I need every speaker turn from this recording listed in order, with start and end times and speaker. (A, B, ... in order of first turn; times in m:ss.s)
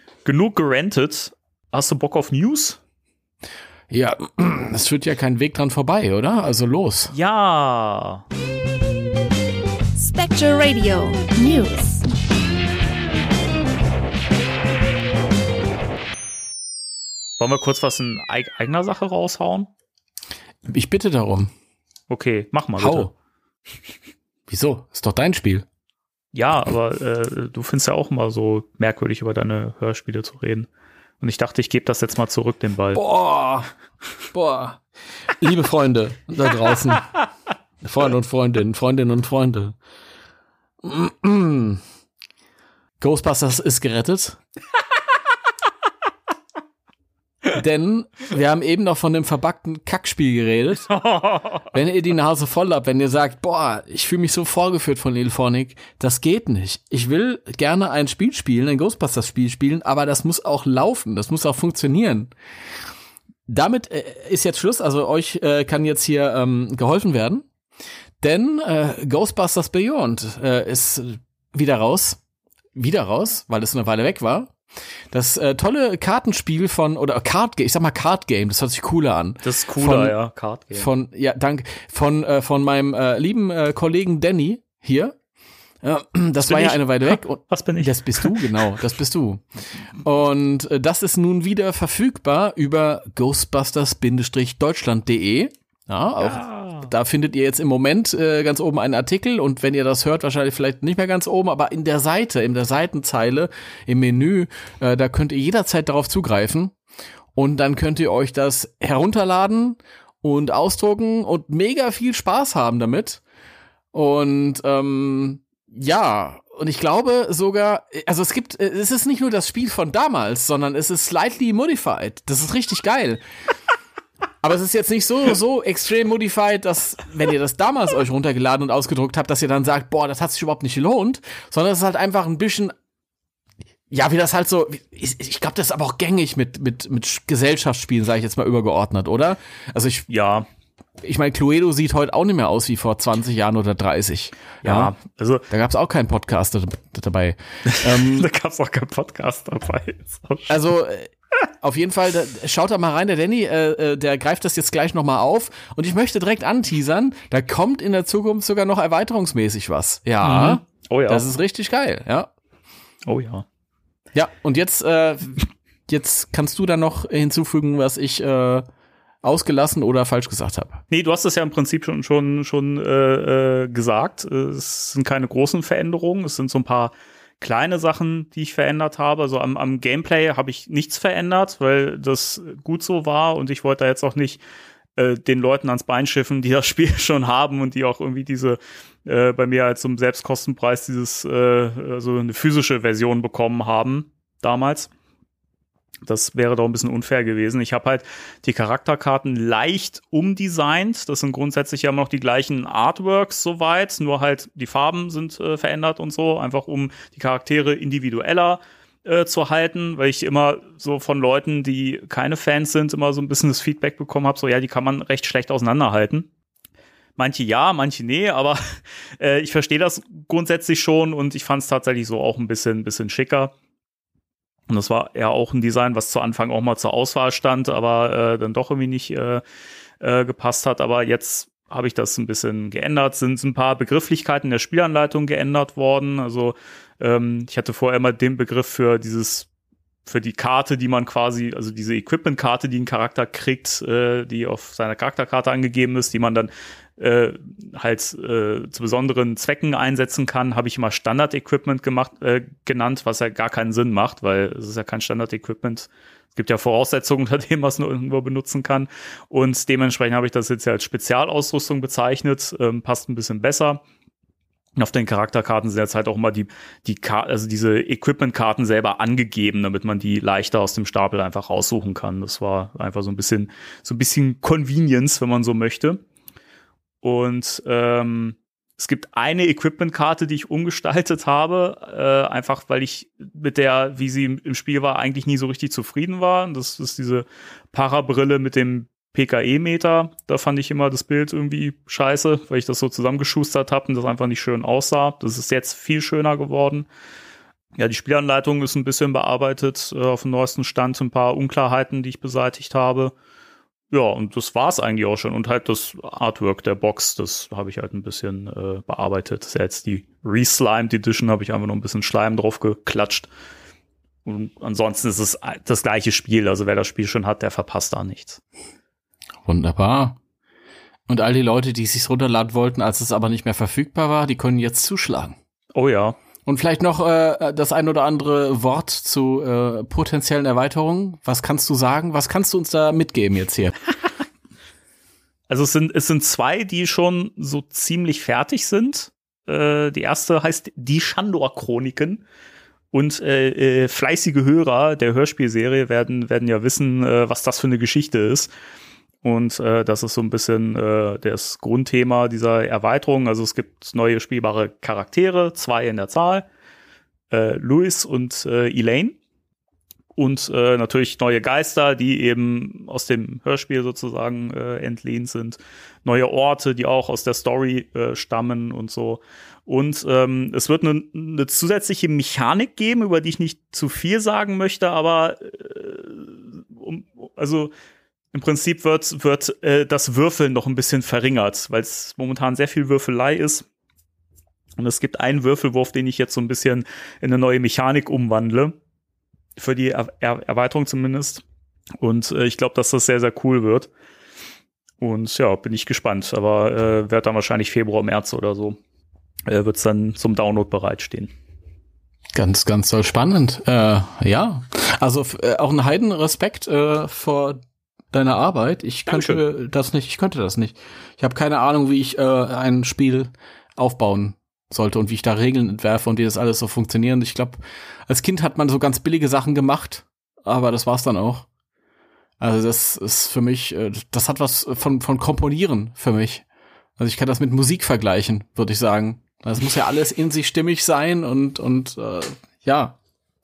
0:00.2-0:02.8 A
0:03.9-0:07.1 B
0:07.1-0:08.2 A
0:10.0-0:12.1 C
0:17.4-0:19.7 A
0:20.6-0:21.5 B
0:22.1-0:23.1 A
0:22.8-0:23.1 B
0:24.5-0:25.6 B
0:26.3-0:30.7 A
0:31.2-0:33.0 A
0:32.9-0:33.7 B
0:34.3-0:34.8 B
0:35.4-0:37.1 B
0:37.8-0:39.8 B
0:40.8-0:41.8 B
0:43.0-0:44.4 B
0:47.5-0:50.9 B
0:50.9-0:51.7 A
0:51.7-1:02.3 B
1:03.5-1:07.4 B
1:08.2-1:12.2 B
1:12.7-1:14.6 B
1:15.1-1:20.2 B
1:19.4-1:20.9 A
1:20.7-1:25.2 B
1:25.8-1:29.4 B
1:26.4-1:28.7 A
1:30.0-1:46.7 B
1:36.2-1:36.9 A
1:47.3-1:53.2 B
1:53.9-2:03.2 B
2:04.4-2:12.7 B
2:13.9-2:20.1 B
2:20.1-2:20.5 A
2:21.0-2:24.9 B
2:24.6-2:25.5 A
2:25.5-2:28.3 B
2:27.7-2:30.6 A
2:30.5-2:42.3 B
2:40.2-2:41.2 A
2:43.0-2:43.4 A
2:44.1-2:48.6 B
2:49.2-2:50.8 B
2:50.9-3:04.4 A
3:05.0-3:14.9 A
3:16.0-3:36.3 A
3:37.2-3:43.5 A
3:44.7-3:49.4 A
3:50.0-3:59.5 A
4:00.0-4:23.8 A
4:24.8-4:36.0 A
4:37.0-4:56.9 A
4:57.8-5:03.1 A
5:03.9-5:13.3 A
5:14.2-5:18.4 A
5:19.4-5:20.2 B
5:21.1-5:25.4 B
5:25.7-5:26.2 A
5:26.4-5:33.8 B
5:35.5-5:42.2 A
5:42.9-5:48.5 A
5:49.2-5:56.5 A
5:57.3-5:59.2 A
6:00.2-6:17.7 A
6:18.3-6:23.6 A
6:24.8-6:28.8 A
6:29.6-6:31.4 A
6:32.0-6:33.9 A
6:35.0-6:38.8 A
6:39.5-6:41.3 A
6:42.3-6:47.6 B
6:48.1-7:01.5 B
6:49.1-6:49.4 A
7:02.4-7:06.4 B
7:07.0-7:13.0 B